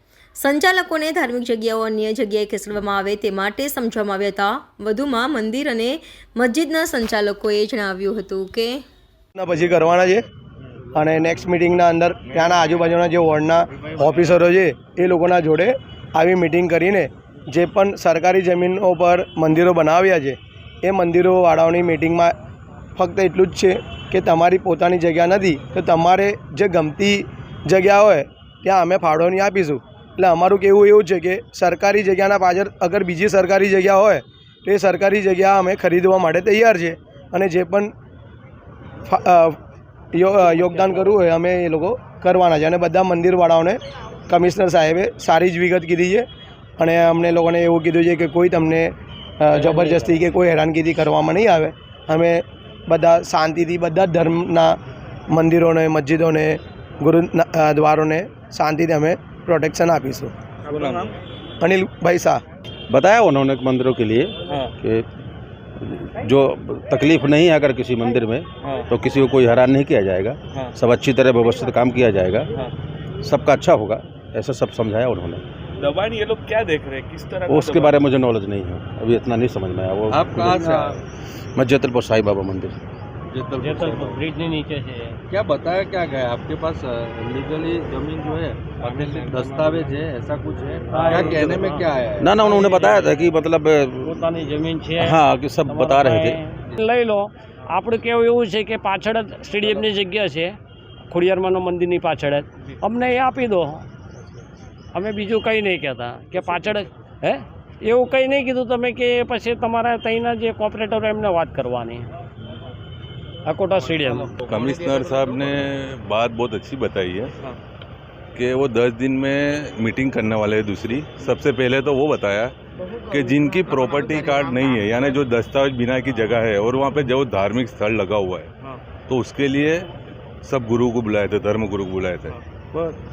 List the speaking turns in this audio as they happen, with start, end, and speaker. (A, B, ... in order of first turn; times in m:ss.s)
0:00.4-0:08.8 A
0:09.4-0:10.2 B
0:11.0-0:22.3 B
0:23.0-0:37.9 B
0:39.1-0:39.6 B
0:40.1-0:46.2 B
0:46.8-0:54.8 B
0:55.3-1:00.3 B
1:01.6-1:02.4 B
1:02.9-1:05.1 C
1:05.8-1:12.5 C
1:13.2-1:15.4 C
1:15.8-1:18.0 D
1:17.5-1:21.0 C
1:20.1-1:21.0 E
1:21.6-1:22.8 C
1:23.3-1:24.4 E
1:23.6-1:25.2 F
1:25.3-1:33.1 E
1:28.8-1:29.9 F
1:30.9-1:31.9 F
1:32.2-1:34.4 C
1:32.4-1:32.9 F
1:34.1-1:40.6 F
1:35.0-1:36.4 C
1:41.1-1:43.8 F
1:44.9-1:52.1 F
1:53.4-1:54.3 F
1:54.4-1:57.3 G
1:58.3-2:02.5 G
2:03.1-2:08.5 G
2:09.1-2:09.8 G
2:10.4-2:12.4 G